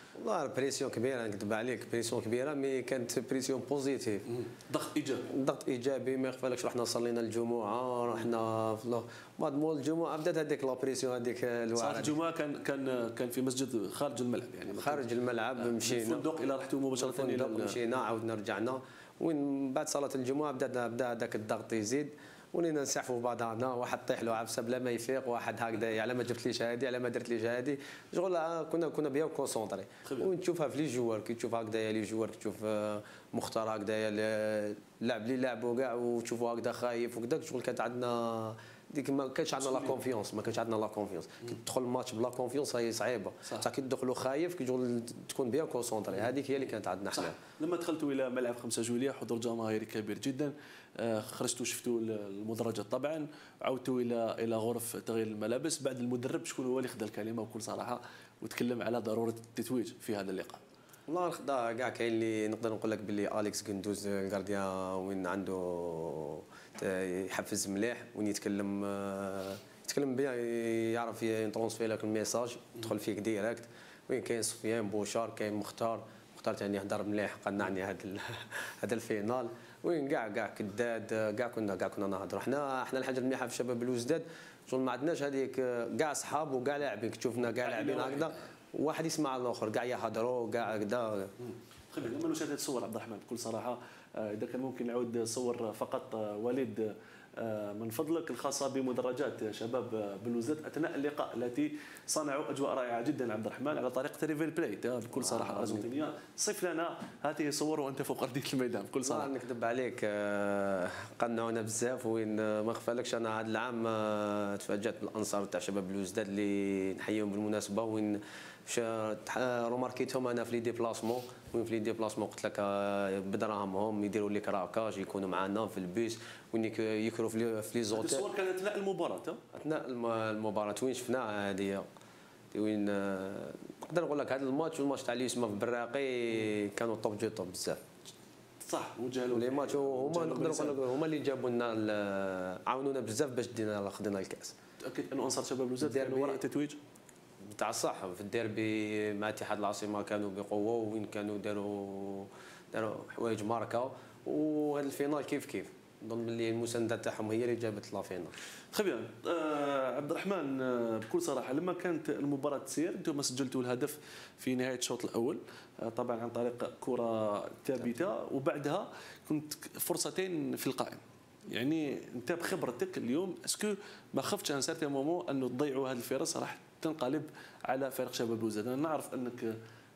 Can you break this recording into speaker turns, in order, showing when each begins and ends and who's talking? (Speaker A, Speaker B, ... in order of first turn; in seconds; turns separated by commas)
Speaker A: 0.2-4.3, Speaker B: 4.4-5.3, Speaker A: 5.3-12.2, Speaker B: 11.8-15.1, Speaker A: 14.7-16.2, Speaker B: 15.6-17.8, Speaker A: 17.0-47.3, Speaker B: 39.6-40.0, Speaker B: 47.1-60.6, Speaker A: 61.1-91.3, Speaker B: 87.6-88.4, Speaker B: 91.9-109.3, Speaker A: 105.2-105.9, Speaker A: 109.0-128.2, Speaker B: 127.9-129.4, Speaker A: 129.5-131.8, Speaker A: 132.5-137.8, Speaker B: 138.6-140.8, Speaker A: 139.3-144.5, Speaker B: 144.8-146.8, Speaker A: 145.8-146.4, Speaker A: 147.5-158.3, Speaker B: 158.7-179.6